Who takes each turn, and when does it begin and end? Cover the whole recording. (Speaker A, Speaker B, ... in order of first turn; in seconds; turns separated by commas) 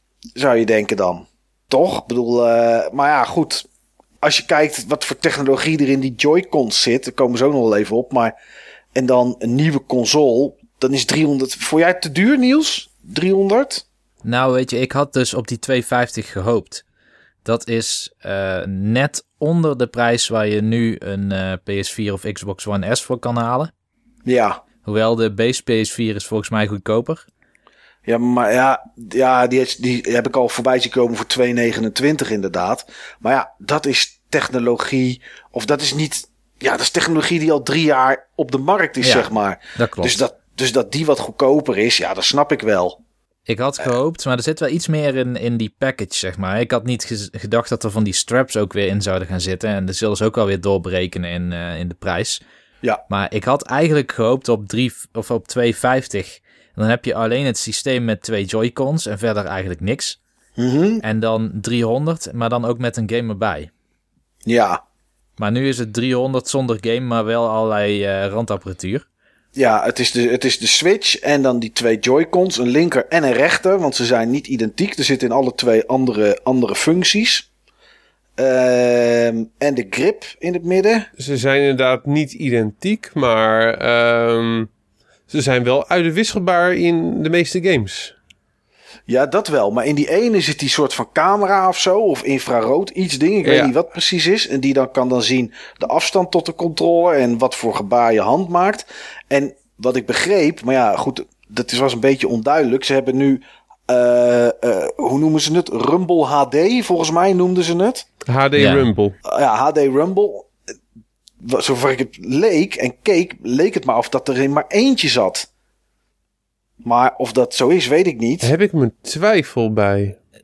Speaker A: 0.3-3.7, Speaker A: 4.2-8.3, Speaker A: 8.9-13.8, Speaker B: 14.2-16.8, Speaker B: 17.4-23.7, Speaker A: 24.2-24.6, Speaker B: 24.8-27.2, Speaker A: 28.1-43.0, Speaker B: 39.0-40.2, Speaker B: 43.5-52.4, Speaker B: 53.1-60.2, Speaker A: 60.6-61.0, Speaker B: 61.0-63.7, Speaker A: 64.5-64.8, Speaker B: 65.4-69.0, Speaker A: 69.5-77.5, Speaker A: 78.4-81.1, Speaker C: 81.2-84.7, Speaker C: 85.3-88.1, Speaker A: 89.1-108.1, Speaker C: 93.4-93.7, Speaker C: 108.2-109.1, Speaker B: 108.5-108.9, Speaker A: 109.2-110.5, Speaker A: 111.4-115.5, Speaker A: 116.8-118.5, Speaker C: 118.4-120.2